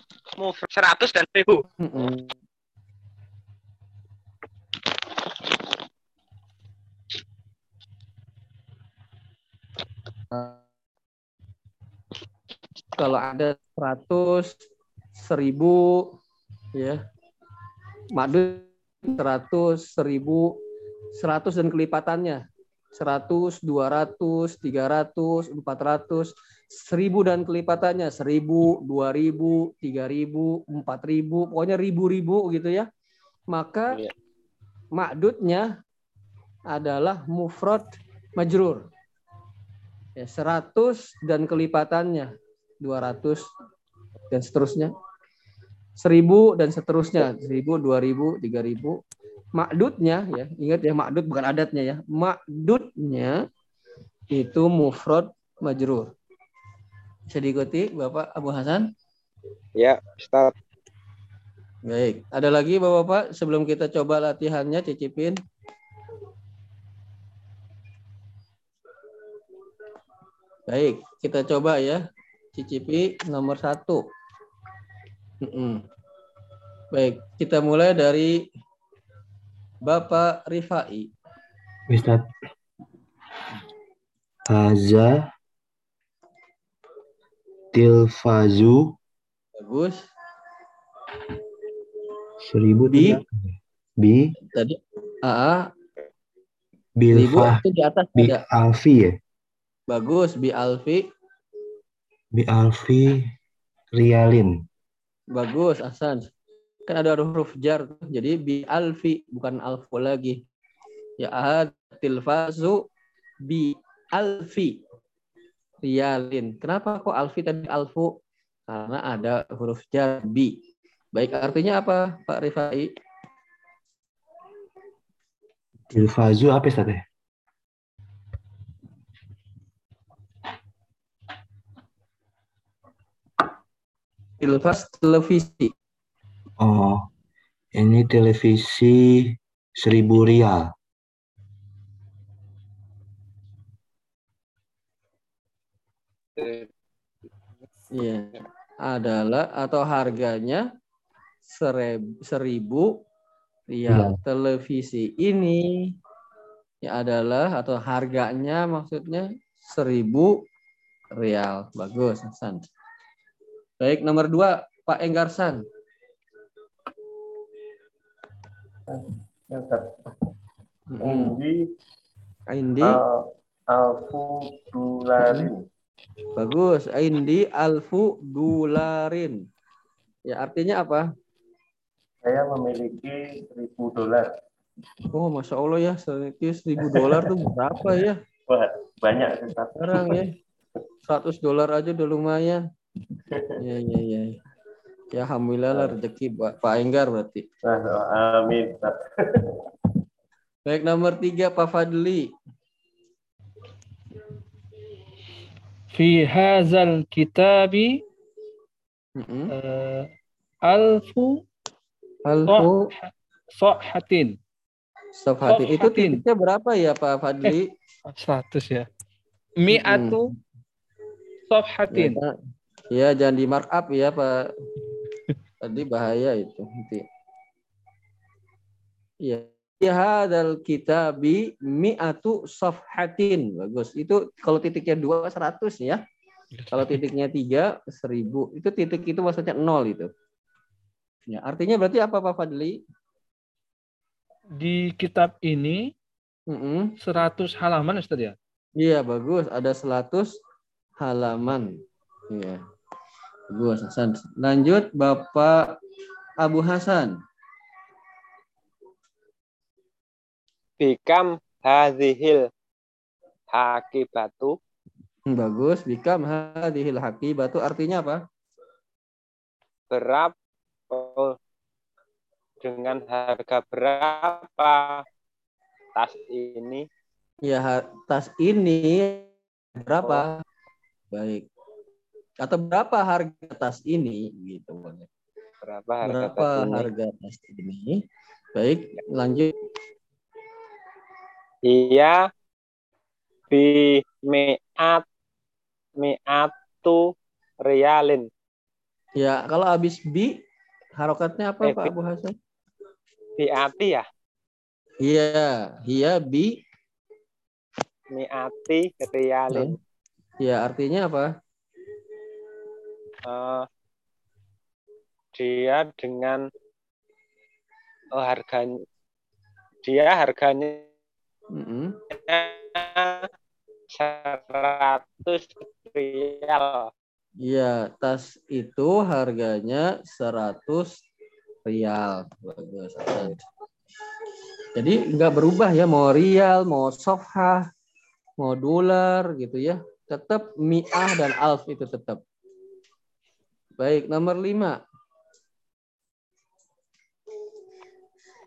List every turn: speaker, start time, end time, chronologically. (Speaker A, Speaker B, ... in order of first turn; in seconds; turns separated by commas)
Speaker A: 0.4-1.6, Speaker B: 1.8-2.3, Speaker B: 10.3-10.6, Speaker B: 12.9-14.6, Speaker B: 15.2-16.1, Speaker B: 16.8-17.0, Speaker B: 18.1-20.6, Speaker B: 21.1-22.4, Speaker B: 22.9-32.9, Speaker B: 33.5-34.0, Speaker B: 34.9-35.8, Speaker B: 36.7-38.9, Speaker B: 40.2-43.5, Speaker B: 44.3-44.9, Speaker B: 46.0-49.0, Speaker B: 49.6-53.4, Speaker B: 54.3-56.1, Speaker B: 57.3-58.9, Speaker A: 59.8-60.5, Speaker B: 61.9-65.4, Speaker B: 70.7-72.0, Speaker B: 72.5-74.0, Speaker B: 75.4-75.8, Speaker B: 76.9-78.4, Speaker B: 79.8-81.1, Speaker C: 81.9-82.3, Speaker C: 84.5-85.2, Speaker C: 87.7-88.9, Speaker B: 89.6-90.0, Speaker C: 92.4-94.3, Speaker B: 92.9-93.2, Speaker B: 94.5-95.7, Speaker C: 97.0-97.6, Speaker B: 97.1-98.4, Speaker C: 98.2-99.2, Speaker B: 99.9-101.0, Speaker C: 102.3-103.2, Speaker C: 103.9-104.6, Speaker B: 105.3-106.3, Speaker B: 106.9-110.4, Speaker B: 111.2-112.8, Speaker B: 113.4-114.8, Speaker B: 115.8-118.1, Speaker B: 118.7-120.5, Speaker B: 121.1-122.9, Speaker C: 125.9-127.0, Speaker B: 134.4-135.7, Speaker C: 136.6-137.1, Speaker C: 137.8-140.7, Speaker B: 147.9-148.3, Speaker B: 148.8-150.7, Speaker B: 151.5-152.9, Speaker B: 153.7-155.7, Speaker C: 153.9-154.2, Speaker B: 156.8-160.4, Speaker B: 161.2-162.7, Speaker B: 163.8-165.6, Speaker D: 168.9-169.9, Speaker B: 170.9-171.4, Speaker D: 171.0-171.6, Speaker B: 172.5-173.0, Speaker D: 172.8-175.7, Speaker B: 175.2-175.5, Speaker B: 176.3-179.4, Speaker B: 180.3-181.1, Speaker D: 182.2-184.3, Speaker B: 185.1-188.2, Speaker D: 186.8-187.4, Speaker D: 188.5-190.3, Speaker B: 189.8-190.3, Speaker B: 191.1-192.6, Speaker B: 193.6-194.4, Speaker B: 195.1-197.4, Speaker D: 197.6-199.6, Speaker B: 200.7-202.3, Speaker E: 205.9-208.0, Speaker B: 209.2-209.5, Speaker E: 209.5-210.1, Speaker E: 210.7-211.4, Speaker B: 212.2-212.9, Speaker E: 212.5-214.4, Speaker B: 215.2-217.7, Speaker E: 215.4-216.2, Speaker E: 218.1-218.9, Speaker E: 219.6-220.3, Speaker B: 219.7-220.2, Speaker E: 221.5-222.2, Speaker B: 221.9-222.3, Speaker B: 222.9-224.4, Speaker B: 225.6-227.0, Speaker B: 229.2-236.0, Speaker E: 236.6-237.0, Speaker B: 236.7-240.1, Speaker B: 241.3-242.8, Speaker E: 244.6-245.9, Speaker B: 246.5-246.9, Speaker E: 247.0-248.3, Speaker B: 248.8-250.3, Speaker B: 251.0-251.8, Speaker B: 252.3-252.6, Speaker B: 253.5-255.7, Speaker B: 256.4-257.2, Speaker A: 260.8-262.4, Speaker A: 263.5-264.6, Speaker B: 265.3-268.2, Speaker A: 269.9-270.3, Speaker A: 270.9-271.4, Speaker A: 272.6-275.0, Speaker A: 275.9-276.9, Speaker B: 277.4-280.4, Speaker B: 281.1-281.4, Speaker B: 282.4-285.1, Speaker A: 285.6-286.9, Speaker B: 286.0-288.0, Speaker B: 288.6-289.5, Speaker A: 291.6-292.2, Speaker A: 293.5-295.0, Speaker A: 296.0-297.1, Speaker A: 297.6-298.3, Speaker B: 299.2-300.4, Speaker B: 301.0-302.3, Speaker A: 301.6-301.9, Speaker A: 303.4-304.0, Speaker B: 305.0-306.6, Speaker A: 308.1-309.8, Speaker B: 310.4-311.3, Speaker A: 313.2-313.7, Speaker A: 315.3-316.4, Speaker A: 318.1-318.8, Speaker A: 319.8-320.9, Speaker B: 321.5-322.0, Speaker A: 322.2-323.3, Speaker A: 323.9-326.9, Speaker B: 327.4-331.0, Speaker B: 331.6-333.4, Speaker B: 334.8-337.6, Speaker B: 338.4-342.2, Speaker B: 343.8-344.8